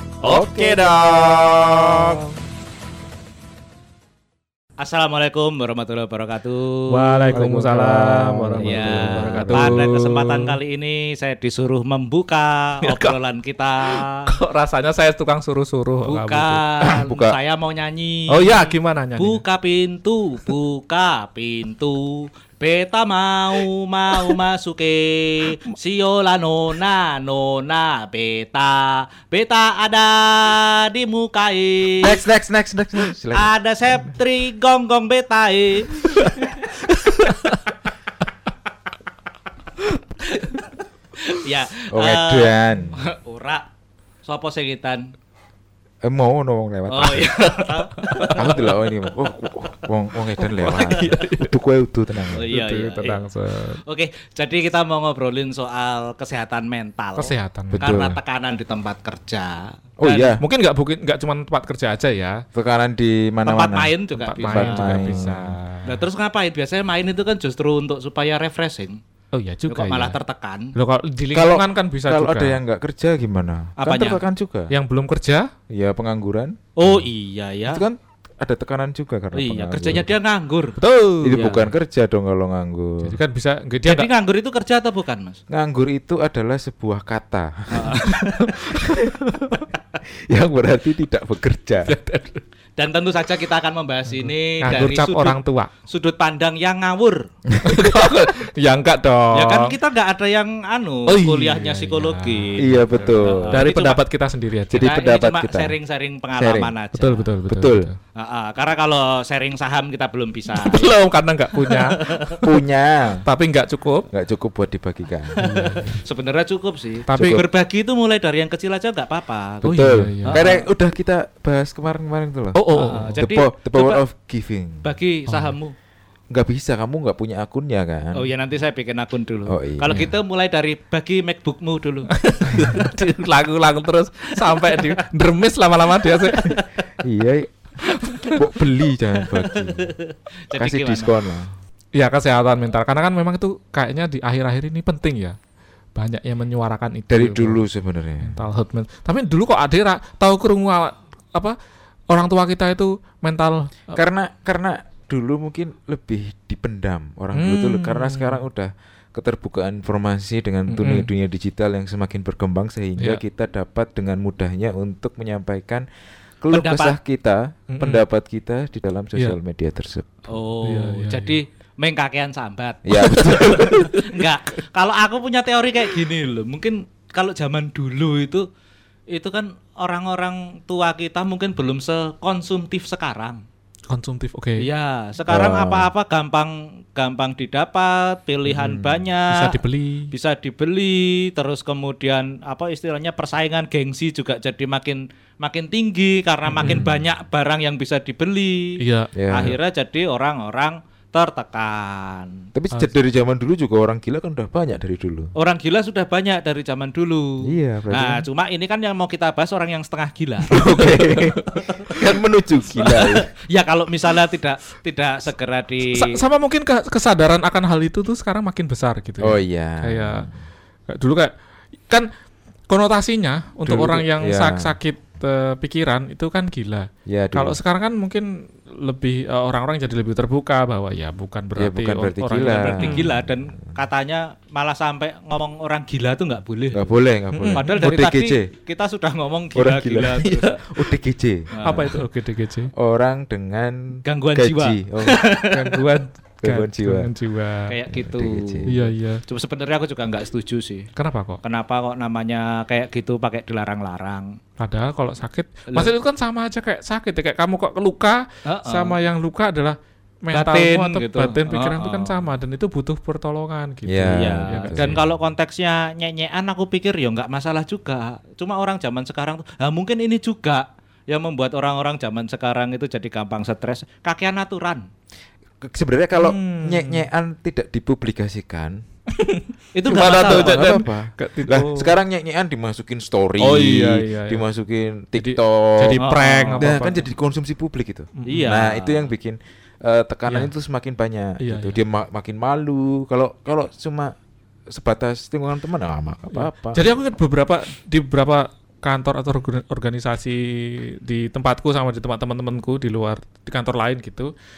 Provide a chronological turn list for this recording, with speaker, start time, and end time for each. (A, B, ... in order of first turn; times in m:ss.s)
0:00.2-0:02.2 A
0:00.2-0:02.3 B
0:04.8-0:07.4 C
0:06.9-0:10.5 A
0:07.3-0:10.2 B
0:08.6-0:14.3 C
0:12.8-0:13.2 A
0:13.9-0:16.6 A
0:16.0-0:32.2 C
0:16.8-0:17.4 B
0:18.3-0:19.4 A
0:32.0-0:34.1 B
0:33.3-0:37.7 C
0:37.2-0:37.5 A
0:40.2-0:43.6 C
0:41.9-0:43.0 B
0:44.2-0:45.1 C
0:46.0-0:47.5 B
0:46.9-0:49.2 C
0:48.0-0:48.3 A
0:48.3-0:52.6 B
0:50.4-0:51.5 A
0:50.7-0:51.2 C
0:52.3-0:53.2 C
0:52.3-0:53.8 A
0:53.8-1:00.4 C
0:57.2-0:58.1 A
0:57.7-0:58.2 B
1:00.0-1:00.4 B
1:00.4-1:02.4 A
1:02.5-1:05.6 B
1:03.4-1:05.3 C
1:04.2-1:06.0 A
1:05.8-1:09.0 C
1:09.3-1:10.2 A
1:09.7-1:10.7 C
1:10.7-1:12.6 A
1:11.3-1:14.7 B
1:13.8-1:14.2 C
1:14.7-1:15.5 A
1:15.7-1:16.6 B
1:16.8-1:17.8 C
1:17.7-1:20.1 B
1:19.3-1:20.8 C
1:20.8-1:21.7 A
1:21.2-1:23.2 B
1:21.3-1:21.7 C
1:23.0-1:24.1 A
1:23.8-1:25.4 C
1:25.5-1:28.0 B
1:27.7-1:28.6 C
1:28.4-1:29.6 A
1:28.8-1:29.1 B
1:30.2-1:32.0 B
1:31.9-1:32.4 A
1:32.8-1:37.2 C
1:34.2-1:35.7 A
1:37.5-1:38.0 B
1:37.6-1:39.7 A
1:39.3-1:44.0 C
1:41.1-1:44.9 A
1:42.6-1:43.7 B
1:44.7-1:45.7 B
1:44.8-1:47.3 C
1:46.4-1:46.7 B
1:46.9-1:48.0 A
1:47.5-1:47.9 B
1:48.1-1:50.9 C
1:50.5-1:52.5 A
1:51.6-1:52.4 C
1:52.4-1:53.3 B
1:53.2-1:54.1 A
1:54.1-1:55.4 B
1:55.4-1:59.7 C
1:55.4-1:56.0 A
1:57.1-1:57.4 A
1:57.1-1:57.4 B
1:59.6-2:04.9 B
1:59.6-2:00.4 A
2:00.2-2:00.7 C
2:02.5-2:03.2 A
2:02.7-2:04.0 C
2:04.8-2:05.7 C
2:05.3-2:05.6 A
2:06.3-2:08.3 B
2:08.1-2:12.9 C
2:09.5-2:10.0 B
2:12.2-2:16.5 A
2:12.5-2:12.8 B
2:14.3-2:15.0 C
2:16.2-2:16.9 C
2:17.0-2:17.5 B
2:17.8-2:18.4 C
2:18.1-2:18.4 A
2:18.4-2:19.9 B
2:19.2-2:21.1 C
2:20.6-2:21.5 B
2:21.9-2:25.4 A
2:25.9-2:27.6 A
2:27.1-2:28.4 B
2:28.2-2:31.6 A
2:32.1-2:34.0 A
2:33.9-2:45.9 B
2:37.3-2:38.4 A
2:40.7-2:41.1 A
2:46.4-2:50.2 B
2:46.5-2:47.0 C
2:47.7-2:48.0 A
2:50.3-2:58.4 C
2:50.6-2:51.4 A
2:52.8-2:53.9 B
2:53.2-2:53.9 A
2:59.1-3:03.4 C
3:03.9-3:04.6 A
3:04.6-3:09.6 C
3:05.3-3:05.9 B
3:08.5-3:09.0 B
3:09.3-3:10.1 A
3:10.1-3:18.8 C
3:16.6-3:17.0 B
3:18.8-3:19.5 A
3:19.1-3:19.6 B
3:19.3-3:22.5 C
3:22.5-3:25.3 B
3:25.4-3:32.0 C
3:27.4-3:28.2 B
3:30.5-3:33.3 B
3:30.6-3:31.4 A
3:32.8-3:36.2 C
3:35.9-3:40.3 A
3:39.2-3:40.3 B
3:40.9-3:41.3 A
3:42.7-3:53.1 A
3:43.6-3:44.8 B
3:47.1-3:47.6 B
3:51.6-3:53.7 B
3:52.5-3:56.9 C
3:56.7-3:58.5 B
3:57.3-3:57.9 A
3:57.5-4:00.7 C
3:59.5-4:02.0 B
4:01.5-4:02.0 C
4:01.6-4:02.7 A
4:02.7-4:05.2 B
4:04.0-4:05.8 C
4:05.4-4:07.7 A
4:06.4-4:07.1 B
4:07.7-4:10.9 C
4:07.9-4:08.9 B
4:08.7-4:09.2 A
4:11.0-4:11.4 A
4:11.4-4:14.4 C
4:14.6-4:25.1 A
4:18.4-4:19.0 C
4:20.3-4:22.2 C
4:23.8-4:24.9 B
4:24.1-4:34.9 C
4:35.6-4:38.8 B
4:36.1-4:37.1 A
4:39.2-4:42.0 A
4:39.7-4:40.7 C
4:40.1-4:46.0 B
4:43.4-4:44.4 A
4:45.2-4:47.0 A
4:46.0-4:46.7 C
4:46.6-4:54.1 B
4:48.2-4:48.5 A
4:48.2-4:49.1 C
4:51.4-4:51.8 A
4:54.7-4:56.8 B
4:56.3-5:04.3 A